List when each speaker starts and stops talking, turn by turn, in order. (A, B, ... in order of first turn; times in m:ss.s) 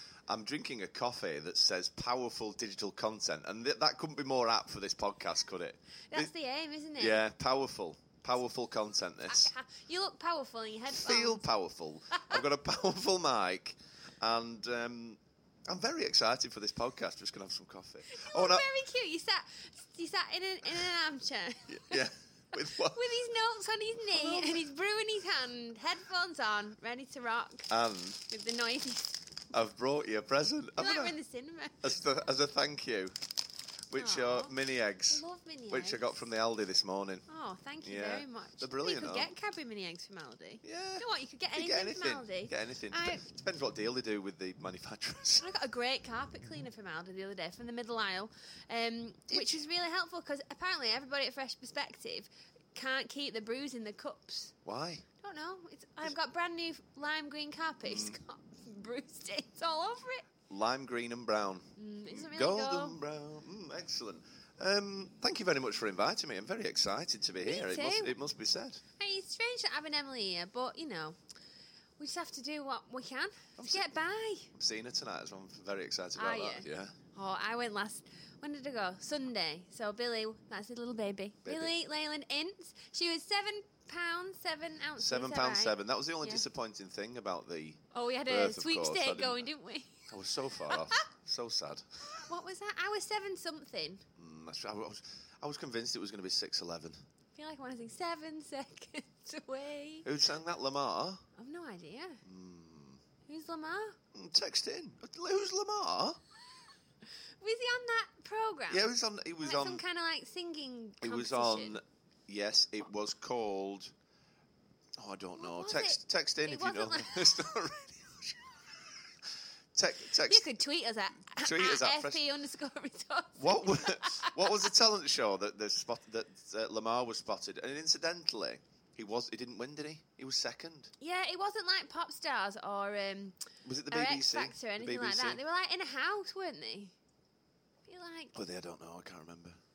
0:00.3-0:06.3 A
0:06.1-0:07.2 B
0:07.0-0:09.5 A
0:09.3-0:11.4 B
0:10.9-0:18.7 A
0:12.1-0:12.4 B
0:18.1-0:22.0 B
0:21.7-0:23.0 A
0:22.6-0:29.2 B
0:24.1-0:24.6 A
0:27.7-0:28.2 A
0:29.5-0:31.2 A
0:30.8-0:31.9 B
0:31.8-0:33.2 A
0:33.9-0:37.2 A
0:33.9-0:34.6 B
0:35.1-0:36.2 B
0:37.3-0:43.2 B
0:37.8-0:39.3 A
0:40.6-0:45.5 A
0:45.4-0:54.5 B
0:49.3-0:49.6 A
0:54.6-0:55.0 A
0:55.2-1:00.2 B
0:57.8-0:58.2 A
1:00.5-1:08.8 A
1:01.8-1:03.0 B
1:07.4-1:08.2 B
1:09.0-1:11.2 B
1:12.0-1:14.5 B
1:13.6-1:14.0 A
1:14.5-1:17.0 A
1:16.2-1:26.4 B
1:21.4-1:21.7 A
1:25.0-1:29.5 A
1:27.9-1:30.1 B
1:30.1-1:31.9 A
1:30.7-1:31.1 B
1:32.1-1:34.0 B
1:34.2-1:37.0 A
1:37.4-1:40.1 B
1:40.0-1:41.2 A
1:41.4-1:42.2 B
1:42.2-1:43.0 A
1:43.3-1:44.0 B
1:44.1-1:46.2 A
1:47.4-1:48.9 B
1:48.7-1:49.8 A
1:49.4-1:51.8 B
1:51.0-1:53.9 A
1:55.0-1:58.8 A
1:55.4-1:57.6 B
1:59.8-2:00.4 A
2:00.2-2:04.7 B
2:01.4-2:02.2 A
2:03.4-2:10.9 A
2:11.0-2:13.4 B
2:13.6-2:15.4 A
2:13.9-2:16.9 B
2:17.9-2:18.4 B
2:18.4-2:19.6 A